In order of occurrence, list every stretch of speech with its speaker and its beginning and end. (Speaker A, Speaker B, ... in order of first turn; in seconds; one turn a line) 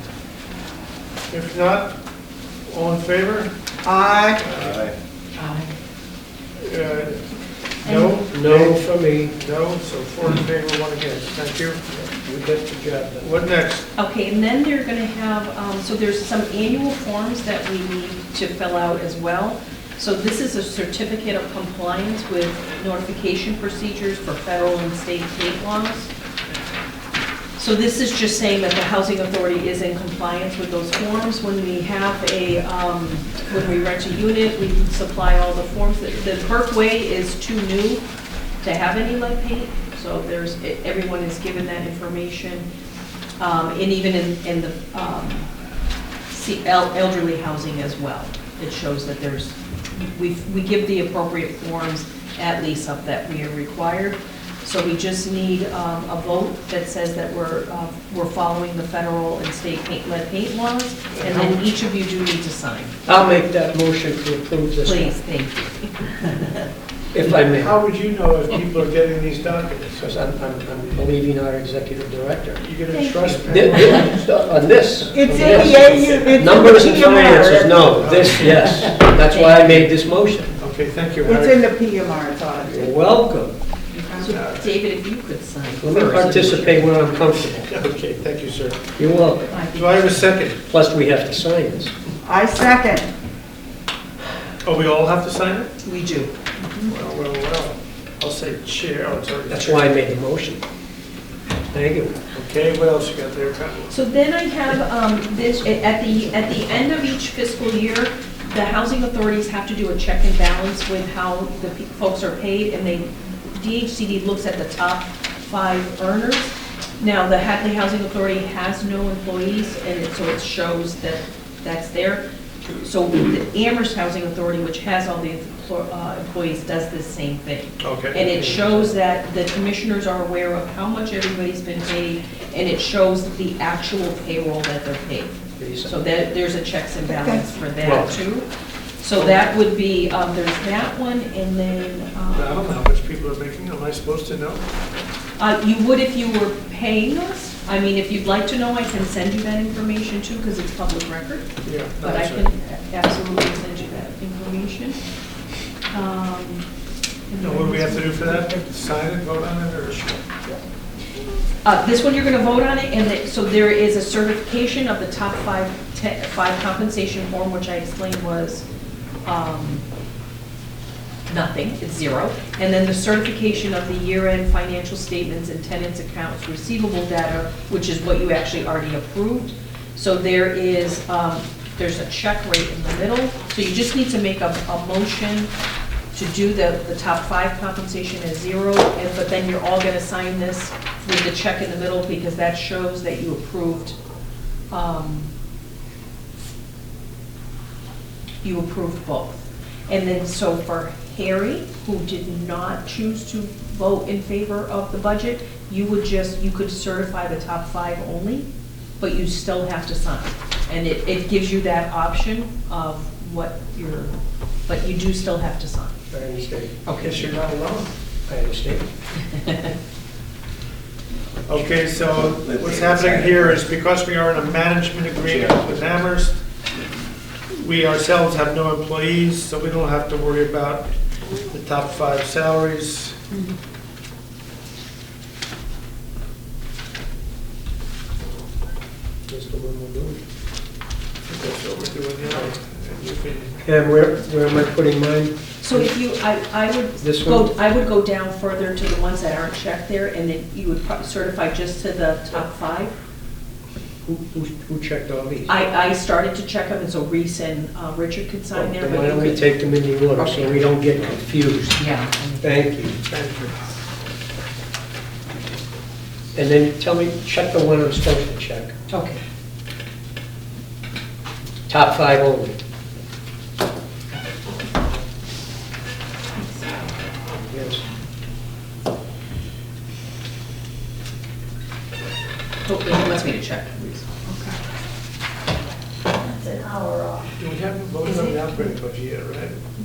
Speaker A: 1.3-2.0
Speaker A: 2.7-3.5
Speaker B: 3.8-4.4
Speaker A: 4.4-4.9
Speaker C: 5.3-5.7
Speaker A: 6.6-11.9
Speaker C: 7.8-8.2
Speaker D: 8.3-9.3
Speaker D: 12.1-13.3
Speaker A: 13.2-13.9
Speaker C: 14.0-26.1
Speaker C: 27.6-38.0
Speaker C: 38.6-42.6
Speaker C: 43.4-45.5
Speaker C: 46.3-63.0
Speaker A: 61.1-61.7
Speaker D: 63.1-65.1
Speaker C: 64.8-66.6
Speaker D: 67.1-67.8
Speaker A: 67.5-70.2
Speaker D: 70.0-72.6
Speaker A: 72.6-74.2
Speaker C: 72.9-74.1
Speaker D: 73.5-80.6
Speaker A: 75.0-79.0
Speaker B: 75.1-77.8
Speaker C: 79.3-79.8
Speaker A: 80.6-81.7
Speaker B: 81.2-82.9
Speaker D: 82.7-83.6
Speaker C: 84.0-86.9
Speaker A: 84.2-84.7
Speaker D: 85.8-87.7
Speaker A: 87.4-88.9
Speaker D: 89.0-89.5
Speaker C: 89.5-90.2
Speaker A: 89.7-90.6
Speaker D: 90.6-91.9
Speaker B: 92.2-93.1
Speaker A: 94.6-95.7
Speaker C: 95.8-96.8
Speaker A: 96.8-100.0
Speaker D: 99.5-100.6
Speaker D: 101.7-102.2
Speaker A: 102.3-104.0
Speaker C: 103.9-122.2
Speaker C: 122.8-138.5
Speaker A: 127.8-128.2
Speaker D: 128.2-128.9
Speaker D: 135.6-135.9
Speaker B: 137.1-137.5
Speaker D: 137.8-138.1
Speaker C: 139.0-142.7
Speaker A: 142.3-144.6
Speaker C: 145.4-151.5
Speaker A: 151.6-152.5
Speaker C: 152.0-155.0
Speaker C: 155.9-156.7
Speaker C: 157.3-158.5
Speaker A: 157.4-160.3
Speaker C: 161.6-168.7
Speaker C: 169.2-169.8
Speaker C: 171.3-185.5
Speaker C: 186.1-194.0
Speaker C: 194.7-195.3
Speaker C: 198.4-208.5
Speaker C: 209.0-214.2
Speaker C: 214.7-216.0
Speaker D: 216.1-217.3
Speaker C: 216.9-217.2
Speaker A: 217.0-217.9
Speaker D: 218.3-218.9
Speaker C: 219.3-219.7
Speaker A: 221.5-226.4
Speaker D: 222.6-223.5
Speaker A: 227.5-230.9
Speaker A: 231.5-233.2
Speaker D: 239.3-240.2
Speaker A: 241.3-243.7
Speaker D: 243.6-245.9
Speaker C: 245.6-252.9
Speaker D: 247.0-247.5
Speaker D: 254.1-255.5
Speaker C: 255.5-259.4
Speaker D: 258.6-261.9
Speaker C: 260.2-260.7
Speaker C: 261.8-262.7
Speaker D: 262.4-263.0
Speaker A: 263.1-263.5
Speaker D: 266.4-268.7
Speaker C: 268.9-269.2
Speaker D: 271.7-272.6
Speaker C: 276.4-276.9
Speaker D: 277.4-277.8
Speaker C: 282.6-284.1
Speaker C: 286.2-287.2
Speaker A: 287.4-289.6
Speaker C: 288.1-288.6